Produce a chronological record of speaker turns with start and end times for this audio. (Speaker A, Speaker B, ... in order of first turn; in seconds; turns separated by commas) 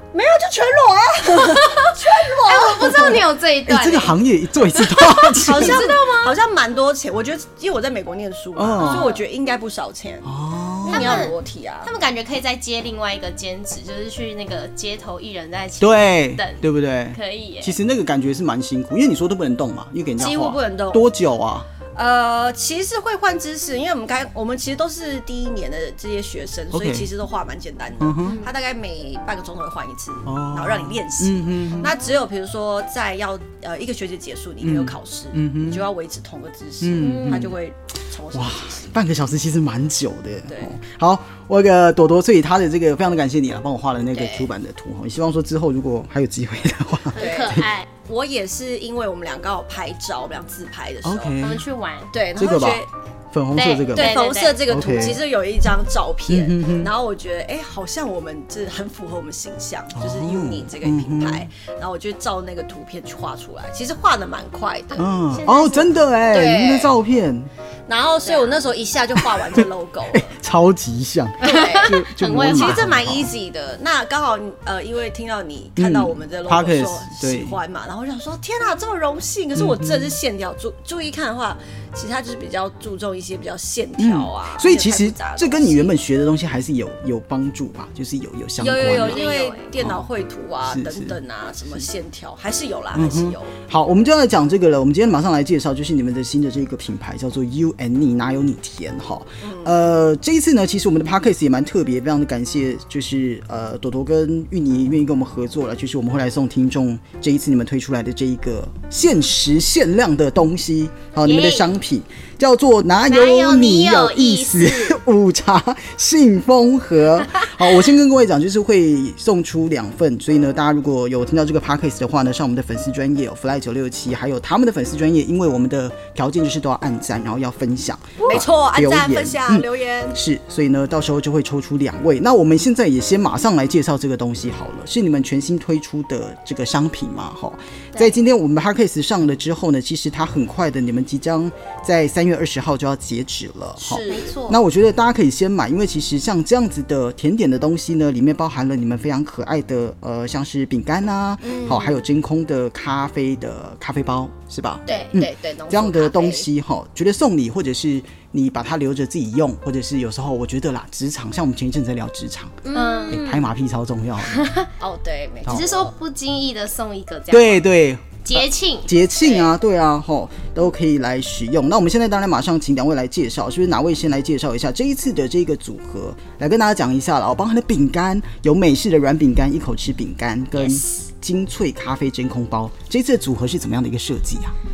Speaker A: 0.1-3.2, Speaker B: 1.3-4.2, Speaker C: 3.6-5.9, Speaker B: 4.7-6.3, Speaker A: 5.4-10.3, Speaker C: 8.6-9.1, Speaker B: 8.8-9.2, Speaker C: 10.2-11.3, Speaker A: 10.8-11.9, Speaker B: 10.9-17.8, Speaker C: 15.8-21.7, Speaker A: 20.2-21.1, Speaker A: 21.9-38.9, Speaker C: 26.7-27.1, Speaker C: 28.0-28.4, Speaker B: 28.2-28.5, Speaker C: 30.2-31.9, Speaker C: 34.6-35.8, Speaker C: 36.8-37.6, Speaker B: 37.0-37.5, Speaker C: 38.3-47.7, Speaker A: 40.5-40.7, Speaker A: 44.1-44.5, Speaker B: 47.1-47.8, Speaker A: 47.1-51.4, Speaker C: 51.0-51.6, Speaker B: 51.4-52.1, Speaker A: 52.1-52.9, Speaker C: 52.3-55.2, Speaker B: 53.5-54.6, Speaker A: 53.9-65.1, Speaker C: 56.3-56.9, Speaker C: 59.9-61.5, Speaker C: 64.9-67.5, Speaker B: 65.3-65.9, Speaker A: 66.3-66.9, Speaker A: 67.9-70.3, Speaker B: 68.2-68.7, Speaker C: 69.2-73.3, Speaker A: 71.4-86.0, Speaker B: 71.4-72.8, Speaker C: 75.8-77.5, Speaker C: 79.5-80.1, Speaker C: 84.0-89.2, Speaker A: 88.6-93.5, Speaker B: 88.9-89.7, Speaker C: 89.8-90.0, Speaker C: 90.6-91.2, Speaker C: 92.9-164.4, Speaker A: 99.4-99.7, Speaker B: 111.2-111.7, Speaker B: 113.0-115.0, Speaker A: 128.2-130.2, Speaker A: 143.8-144.3, Speaker B: 143.8-144.6, Speaker A: 151.4-152.0, Speaker A: 154.8-156.5, Speaker A: 162.6-163.2, Speaker B: 162.7-163.5, Speaker B: 164.3-164.7, Speaker A: 164.8-165.9, Speaker B: 165.5-167.7, Speaker C: 167.3-184.5, Speaker B: 168.2-168.9